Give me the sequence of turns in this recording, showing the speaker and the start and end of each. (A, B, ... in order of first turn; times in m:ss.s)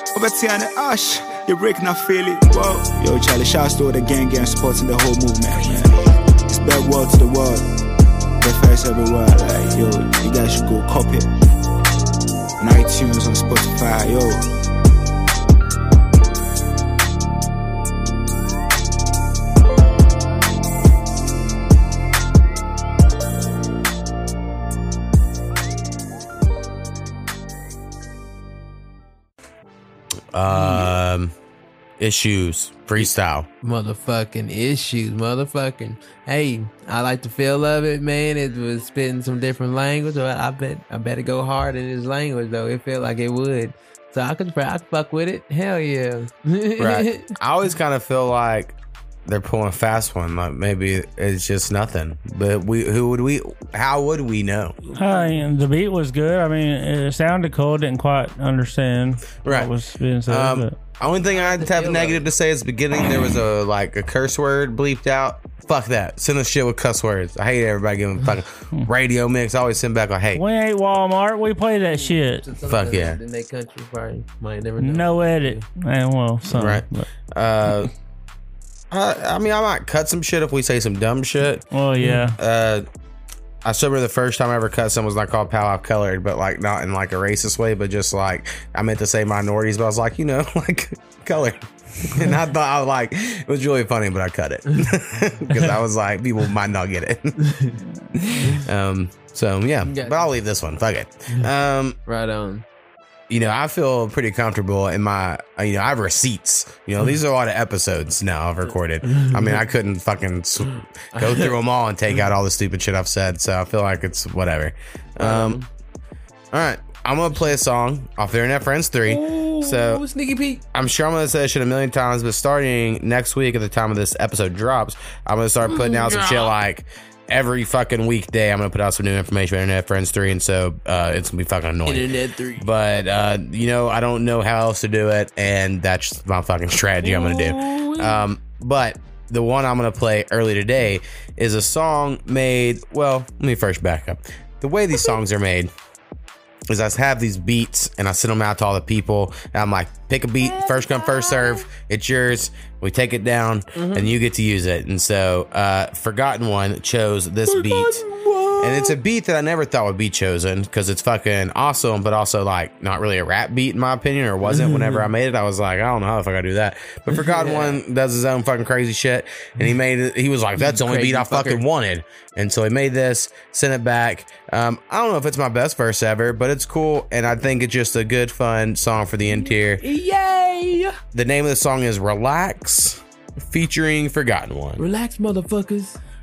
0:00.2-0:05.9 A
0:06.6-0:07.6 A
0:08.4-0:11.2 A
0:12.6-0:14.4 A
0:30.3-0:31.3 B
0:30.5-0:30.9 C
0:32.0-0:33.5 B
0:33.6-0:47.3 C
0:46.8-0:48.7 B
0:49.2-0:54.8 B
0:54.9-0:55.4 C
0:55.0-1:00.8 D
0:59.4-0:59.7 B
1:00.3-1:10.4 B
1:01.3-1:02.2 C
1:10.3-1:12.4 D
1:11.9-1:15.6 C
1:12.7-1:13.2 B
1:14.8-1:17.0 D
1:16.5-1:17.9 B
1:18.9-1:21.6 B
1:21.7-1:22.4 D
1:22.4-1:22.8 B
1:23.6-1:37.4 B
1:38.4-1:42.0 B
1:39.8-1:40.3 C
1:42.0-1:42.6 C
1:43.3-1:55.6 B
1:49.0-1:49.6 C
1:51.1-1:51.5 C
1:55.2-1:55.6 C
1:56.5-2:00.0 B
1:59.0-2:00.6 C
2:00.7-2:12.1 B
2:05.6-2:06.5 C
2:11.8-2:12.6 C
2:12.6-2:25.7 B
2:17.0-2:18.2 C
2:26.7-2:38.0 B
2:30.4-2:31.6 C
2:33.8-2:34.1 C
2:37.5-2:39.0 C
2:38.6-2:59.8 B
2:44.4-2:45.1 C
2:47.1-2:47.8 C
2:50.6-2:51.6 C
2:59.3-3:01.0 C
3:01.1-3:04.8 B
3:04.8-3:06.0 C